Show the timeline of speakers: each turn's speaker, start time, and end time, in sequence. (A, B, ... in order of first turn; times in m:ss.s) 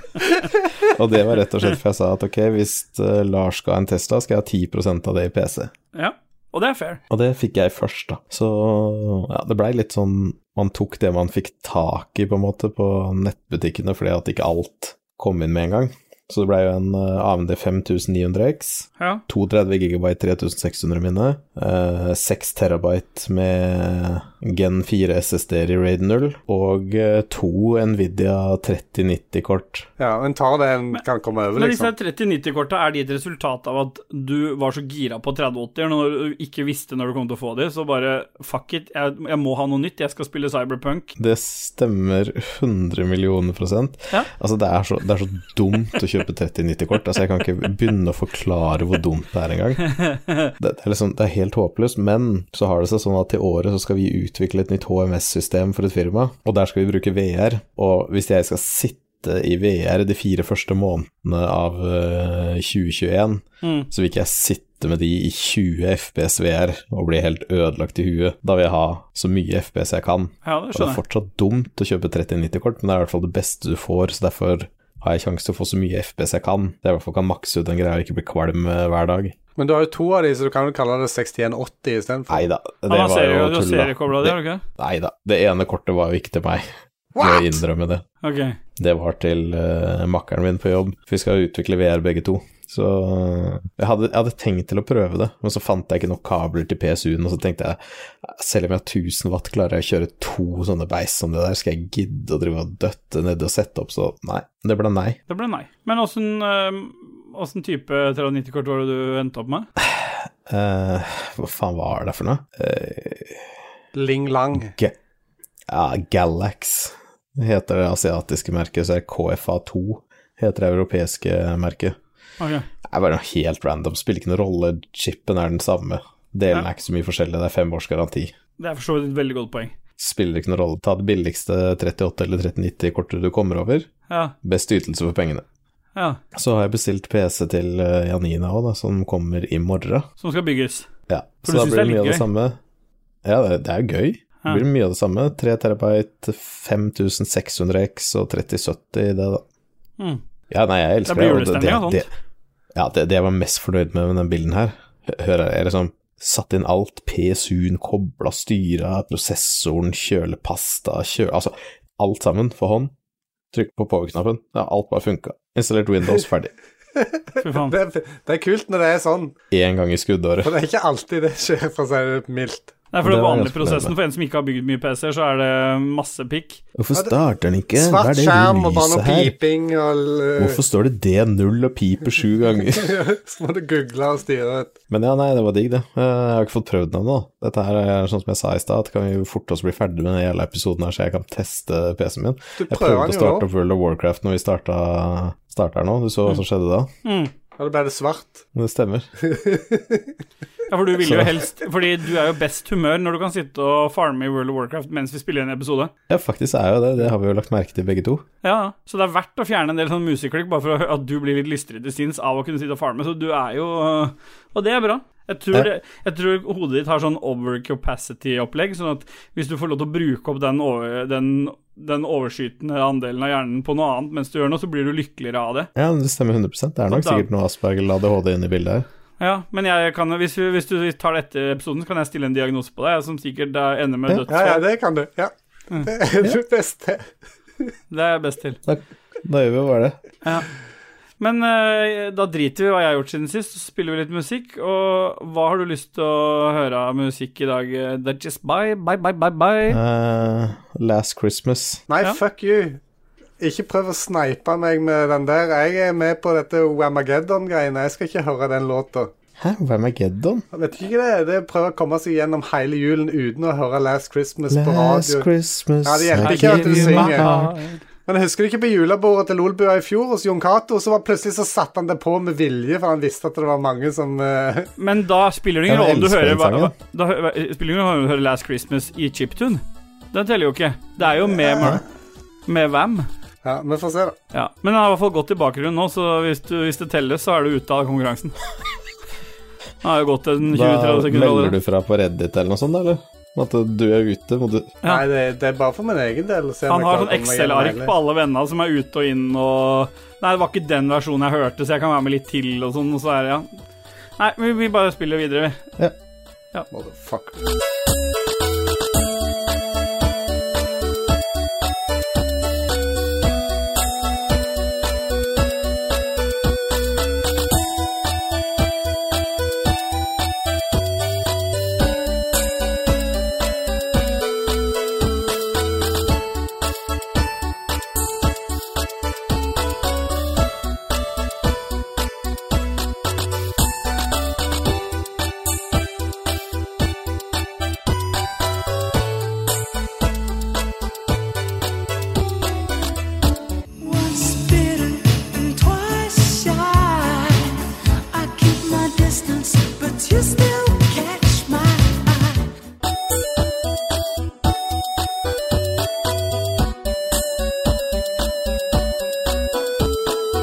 0:00.8-0:05.7 A
0:05.9-0:07.0 B
0:07.1-0:29.9 A
0:30.0-0:31.9 C
0:31.6-0:41.1 B
0:41.2-0:49.9 A
0:49.9-0:50.5 B
0:50.6-1:19.4 A
1:03.6-1:03.9 B
1:10.4-1:11.0 B
1:19.6-1:22.5 C
1:22.3-1:28.0 A
1:22.9-1:24.6 B
1:27.2-1:27.6 C
1:28.2-1:28.6 B
1:28.8-1:45.2 A
1:45.3-1:49.7 B
1:49.8-1:53.5 A
1:53.9-1:54.8 C
1:54.6-1:55.0 A
1:55.7-2:02.0 A
2:02.4-2:02.7 B
2:02.8-2:08.3 A
2:08.6-2:09.8 B
2:10.0-2:13.9 A
2:14.1-2:14.4 B
2:14.4-2:15.4 A
2:16.3-2:20.1 A
2:20.2-2:20.9 B
2:21.1-2:22.6 A
2:21.4-2:22.2 B
2:23.2-2:29.4 A
2:30.5-2:32.1 A
2:31.1-2:32.0 B
2:32.8-2:42.9 A
2:43.5-2:46.5 A
2:47.0-2:49.3 C
2:47.4-2:47.8 B
2:49.5-2:50.5 A
2:50.4-2:52.7 C
2:52.9-2:56.6 B
2:53.0-2:53.9 A
2:56.8-2:59.4 A
2:57.8-3:00.6 C
3:00.4-3:03.0 A
3:02.8-3:04.7 C
3:04.9-3:16.9 A
3:12.6-3:13.5 C
3:17.0-3:17.3 B
3:17.6-3:18.4 C
3:18.6-3:19.1 A
3:19.2-3:20.1 C
3:20.7-3:25.9 B
3:21.0-3:21.3 A
3:26.1-3:28.2 A
3:28.4-3:45.7 B
3:45.8-3:48.9 A
3:46.9-3:47.3 B
3:49.2-3:54.6 B
3:54.3-3:57.1 C
3:57.9-3:58.6 B
3:58.6-4:00.0 A
4:01.2-4:09.8 B
4:09.7-4:11.8 A
4:11.9-4:12.8 C
4:13.4-4:19.1 C
4:19.4-4:20.4 A
4:20.5-4:25.3 C
4:24.5-4:27.6 A
4:25.8-4:27.3 C
4:26.2-4:27.8 B
4:28.1-4:34.7 C
4:34.8-4:39.6 B
4:35.7-4:36.7 A
4:40.1-4:41.8 B
4:42.5-4:43.1 B
4:43.4-4:44.2 C
4:44.3-4:48.4 B
4:49.8-4:51.6 B
4:50.5-4:54.8 A
4:54.8-4:57.9 C
4:56.7-5:03.5 B
5:04.2-5:05.7 B
5:06.7-5:07.4 C
5:43.8-5:47.3 D
5:48.1-5:52.4 D